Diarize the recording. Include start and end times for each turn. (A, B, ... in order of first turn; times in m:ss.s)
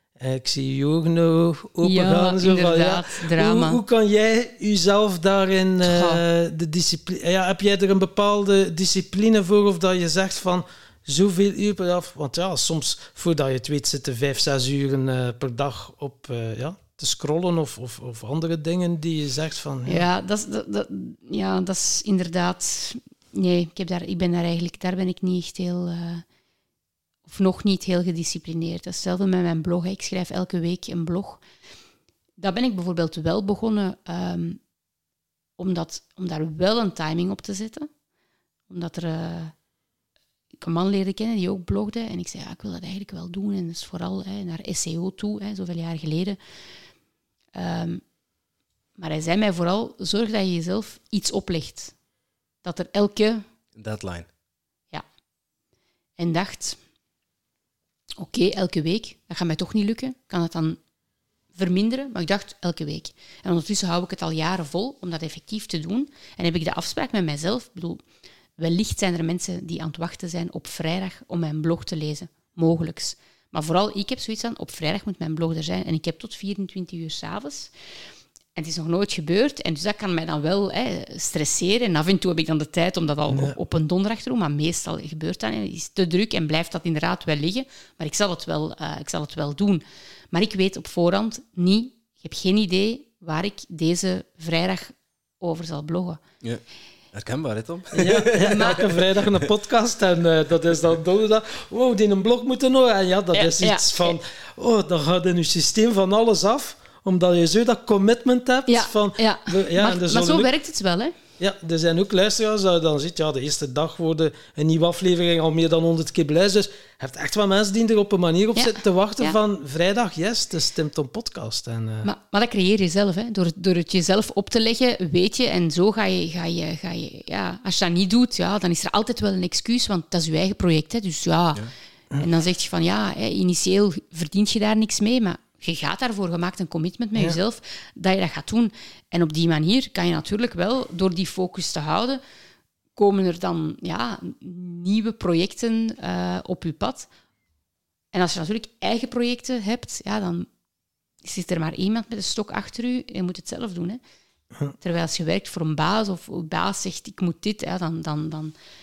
0:00.2-0:20.0 A
0:01.8-0:03.8 B
0:05.8-0:06.2 B
0:19.8-0:26.2 B
0:27.2-0:31.4 B
0:32.4-0:34.6 B
0:35.6-0:37.9 B
0:38.7-0:39.5 B
0:40.6-0:46.4 B
0:47.5-0:48.0 B
0:49.0-0:51.9 B
0:52.6-0:53.4 B
0:53.7-0:54.3 C
0:56.2-0:56.8 B
0:58.2-1:00.8 B
1:01.5-1:08.0 B
1:08.6-1:17.7 B
1:18.5-1:36.2 B
1:37.1-1:38.7 C
1:37.9-1:50.5 A
1:38.4-1:38.8 B
1:43.3-1:44.2 B
1:48.7-1:51.1 B
1:51.4-2:02.1 A
1:58.5-1:59.4 B
2:02.0-2:22.2 B
2:23.0-2:27.1 B
2:28.1-2:30.5 B
2:31.2-2:34.0 B
2:34.8-2:38.5 B